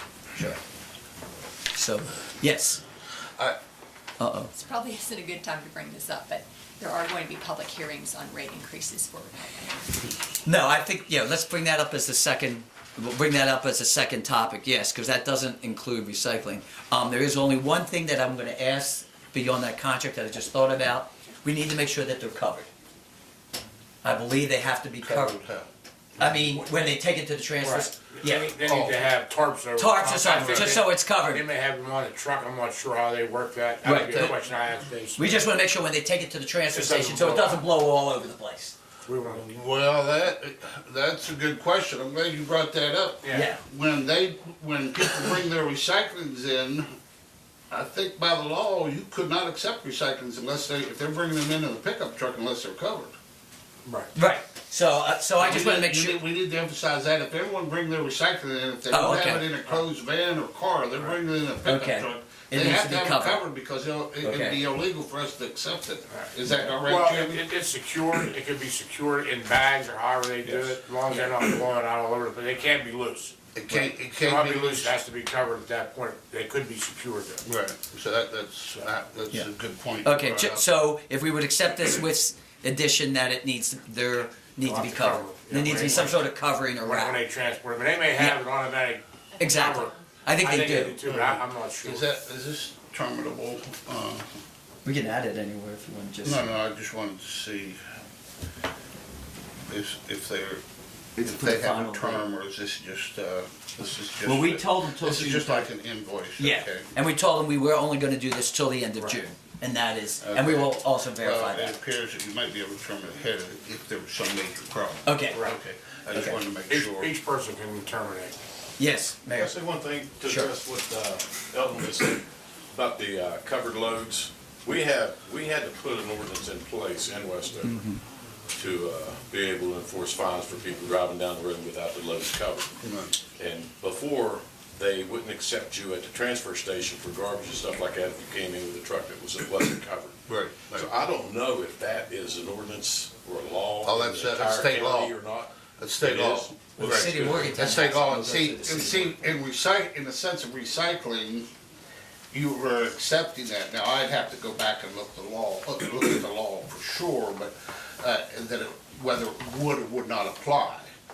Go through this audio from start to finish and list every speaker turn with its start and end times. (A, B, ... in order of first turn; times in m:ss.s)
0:01.7-0:02.8 A
0:04.2-0:04.5 A
0:04.5-0:10.1 B
0:10.4-0:22.7 A
0:24.0-0:25.4 A
0:25.0-0:25.7 C
0:26.2-0:28.5 A
0:27.6-0:35.2 D
0:28.6-0:29.1 C
0:29.8-0:31.4 A
0:33.8-0:34.3 A
0:35.2-0:38.7 A
0:36.7-0:37.6 D
0:39.0-0:39.3 D
0:39.3-0:46.9 C
0:43.3-0:43.6 A
0:47.7-0:53.1 C
0:53.8-0:54.1 D
0:54.1-0:56.2 A
0:55.4-1:07.4 C
0:58.9-0:59.5 A
1:01.6-1:03.4 A
1:04.2-1:04.6 A
1:06.9-1:13.3 D
1:13.5-1:15.0 C
1:14.2-1:17.4 D
1:17.4-1:20.6 C
1:20.0-1:27.2 A
1:24.6-1:26.2 D
1:26.8-1:29.0 D
1:29.4-1:31.0 A
1:29.4-1:30.0 B
1:29.6-1:32.1 D
1:31.0-1:34.2 C
1:34.8-1:36.5 A
1:36.2-1:37.8 C
1:39.7-1:40.6 C
1:41.2-1:42.2 A
1:41.2-1:46.9 C
1:44.2-1:45.7 A
1:46.4-1:51.8 A
1:50.2-1:57.1 C
1:55.0-1:55.4 A
1:55.3-1:55.6 D
1:56.1-1:56.4 A
1:56.7-1:58.4 D
1:58.8-1:59.5 A
1:59.3-2:07.8 E
2:00.2-2:00.5 A
2:07.6-2:08.0 A
2:08.6-2:12.7 E
2:12.8-2:13.1 C
2:13.4-2:20.1 E
2:20.3-2:20.9 C
2:20.7-2:27.5 E
2:23.8-2:25.1 C
2:25.8-2:31.5 C
2:26.8-2:29.1 A
2:32.3-2:40.9 C